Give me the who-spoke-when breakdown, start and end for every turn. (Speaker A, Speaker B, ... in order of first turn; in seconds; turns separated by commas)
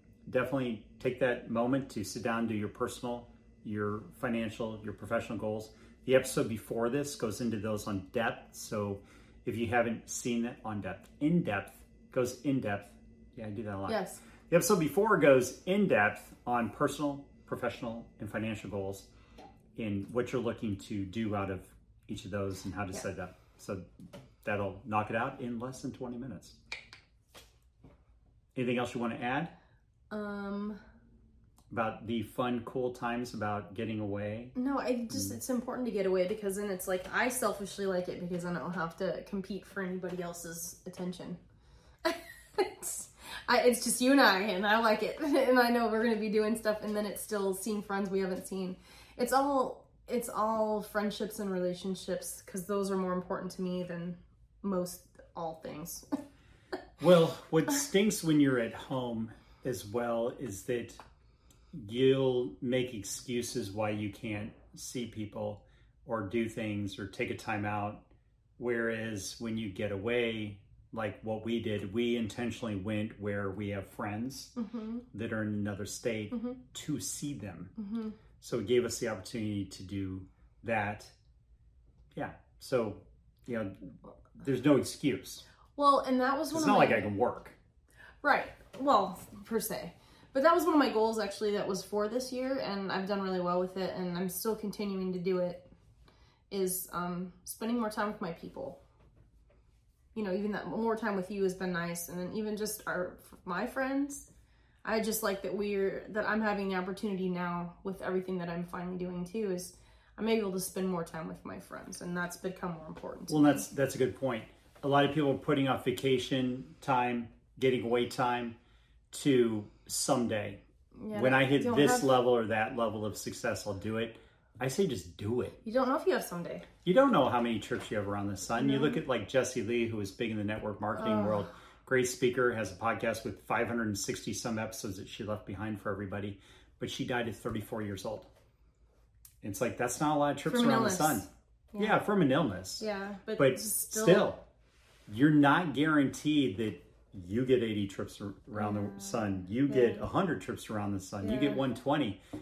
Speaker A: 0.3-19.1, Speaker B: 13.9-14.2, Speaker A: 19.8-23.8, Speaker A: 24.4-26.6, Speaker A: 28.5-29.5, Speaker B: 30.1-30.8, Speaker A: 31.7-34.5, Speaker B: 34.5-41.4, Speaker B: 42.0-56.0, Speaker A: 57.0-61.0, Speaker A: 61.7-68.0, Speaker A: 68.6-74.5, Speaker B: 74.6-75.0, Speaker A: 75.1-77.7, Speaker B: 76.3-76.6, Speaker B: 77.8-78.2, Speaker A: 78.4-81.1, Speaker A: 82.1-85.4, Speaker B: 85.8-87.1, Speaker A: 86.5-87.5, Speaker B: 88.2-95.7, Speaker B: 96.5-98.8, Speaker B: 100.1-104.3, Speaker B: 104.8-113.7, Speaker A: 113.3-118.5, Speaker A: 119.1-120.6, Speaker B: 121.0-122.1, Speaker A: 121.1-125.6, Speaker B: 125.6-126.7, Speaker A: 126.8-138.3, Speaker B: 128.6-129.0, Speaker B: 130.9-131.5, Speaker A: 139.4-141.2, Speaker B: 140.4-142.0, Speaker A: 141.8-142.8, Speaker B: 142.8-144.3, Speaker A: 143.3-144.4, Speaker A: 145.1-152.2, Speaker B: 148.5-150.1, Speaker B: 151.2-151.6